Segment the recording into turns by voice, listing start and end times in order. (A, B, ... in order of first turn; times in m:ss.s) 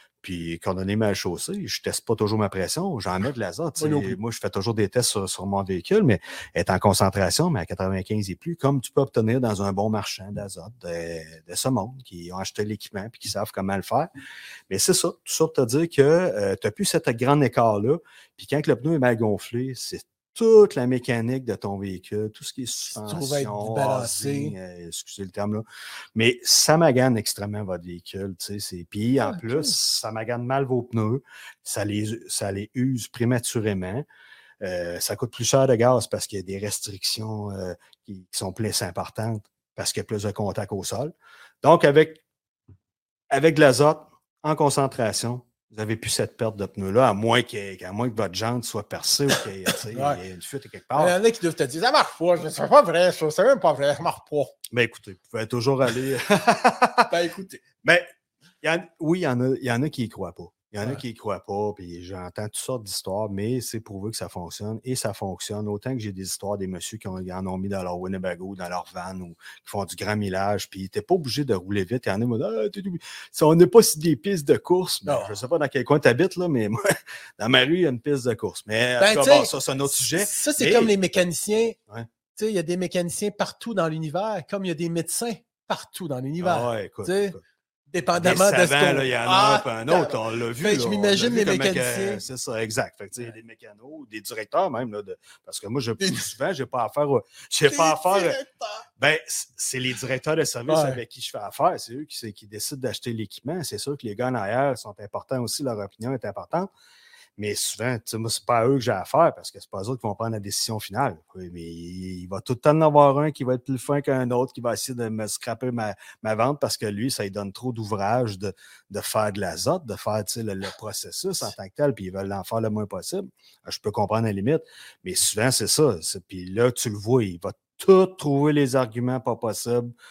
0:00.2-0:14.1 A
0:03.8-0:04.2 B
0:14.7-0:34.1 A
0:23.0-0:24.6 B
0:29.2-0:29.8 B
0:34.6-0:42.2 A
0:43.3-0:51.2 A
0:49.9-0:50.2 B
0:51.0-0:54.5 B
0:54.7-0:57.1 A
0:57.1-0:57.6 B
0:57.8-0:58.1 A
0:58.6-1:16.8 A
1:15.1-1:15.4 B
1:17.4-1:21.0 A
1:19.0-1:19.5 B
1:20.2-1:21.8 B
1:22.3-1:27.4 B
1:26.4-1:27.4 A
1:27.9-1:32.2 B
1:28.2-1:38.4 A
1:36.0-1:36.3 B
1:37.7-1:38.8 B
1:39.0-1:46.7 A
1:40.7-1:41.0 B
1:47.4-2:09.9 A